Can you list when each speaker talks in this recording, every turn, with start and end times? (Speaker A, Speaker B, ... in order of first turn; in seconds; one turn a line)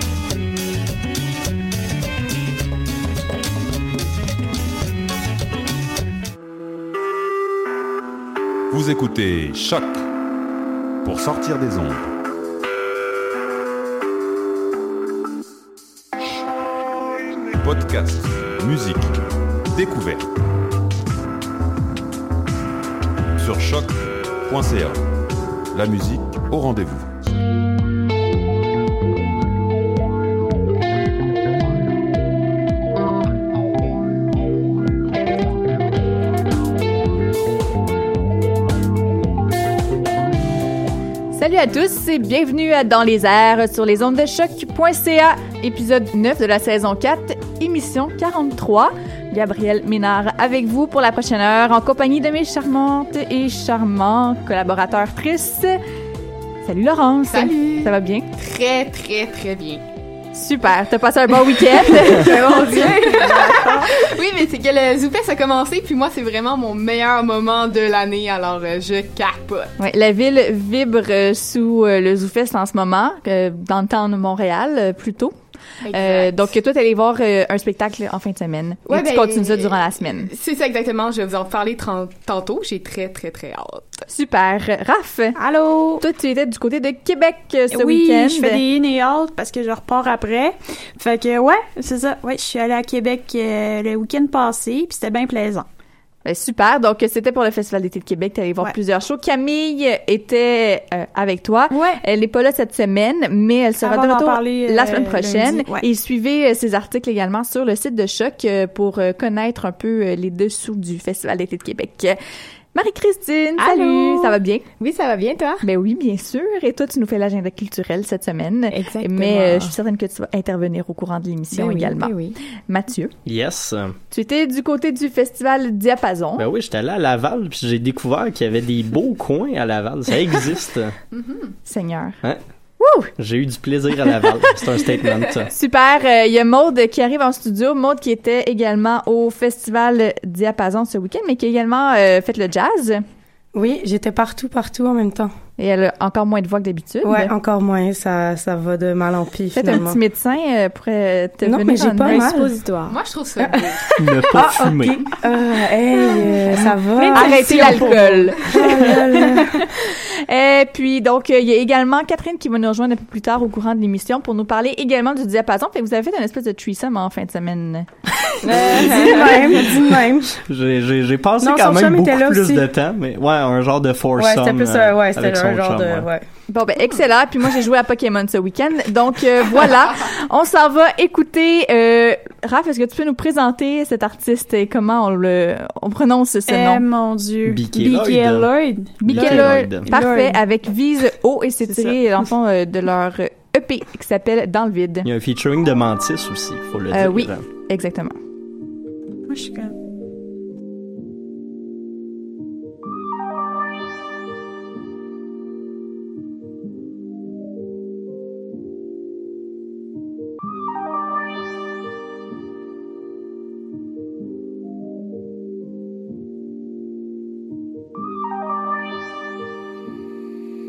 Speaker A: 8.7-10.0
Speaker A: 11.0-12.1
Speaker A: 17.6-19.2
Speaker A: 19.7-20.3
Speaker A: 23.4-25.0
Speaker A: 25.7-27.1
Speaker B: 41.3-55.8
Speaker B: 56.6-58.2
Speaker C: 57.3-59.8
Speaker B: 60.3-63.6
Speaker D: 62.1-63.2
Speaker E: 62.7-63.0
Speaker C: 63.0-69.7
Speaker B: 69.8-75.3
Speaker C: 75.9-76.3
Speaker B: 75.9-80.3
Speaker C: 78.9-84.0
Speaker B: 84.1-85.4
Speaker F: 85.4-86.0
Speaker B: 86.0-88.6
Speaker F: 87.7-95.7
Speaker B: 96.2-112.2
Speaker F: 101.7-102.0
Speaker F: 103.8-105.8
Speaker B: 112.7-114.7
Speaker D: 113.6-115.6
Speaker B: 115.6-122.2
Speaker D: 118.7-119.7
Speaker D: 121.5-122.4
Speaker B: 122.7-123.1
Speaker G: 123.2-124.0
Speaker B: 124.1-126.5
Speaker G: 126.4-130.9
Speaker C: 131.1-131.5
Speaker B: 131.7-132.2
Speaker B: 132.8-133.1
Speaker G: 133.2-135.5
Speaker B: 135.5-143.0
Speaker E: 143.5-145.3
Speaker B: 145.6-147.3
Speaker E: 147.0-150.0
Speaker B: 149.5-152.3
Speaker E: 151.4-152.5
Speaker D: 152.0-153.0
Speaker C: 152.9-153.8
Speaker G: 154.0-155.0
Speaker E: 154.2-159.4
Speaker D: 154.4-159.4
Speaker B: 157.1-167.9
Speaker B: 168.4-169.4
Speaker E: 168.4-170.3
Speaker G: 168.7-176.1
Speaker D: 169.1-169.5
Speaker E: 171.4-172.6
Speaker E: 174.2-176.2
Speaker B: 176.5-186.8
Speaker F: 186.5-190.4
Speaker G: 187.4-189.9
Speaker B: 189.0-195.1
Speaker F: 191.7-192.0
Speaker G: 195.0-197.4
Speaker B: 196.9-198.2
Speaker F: 199.3-199.7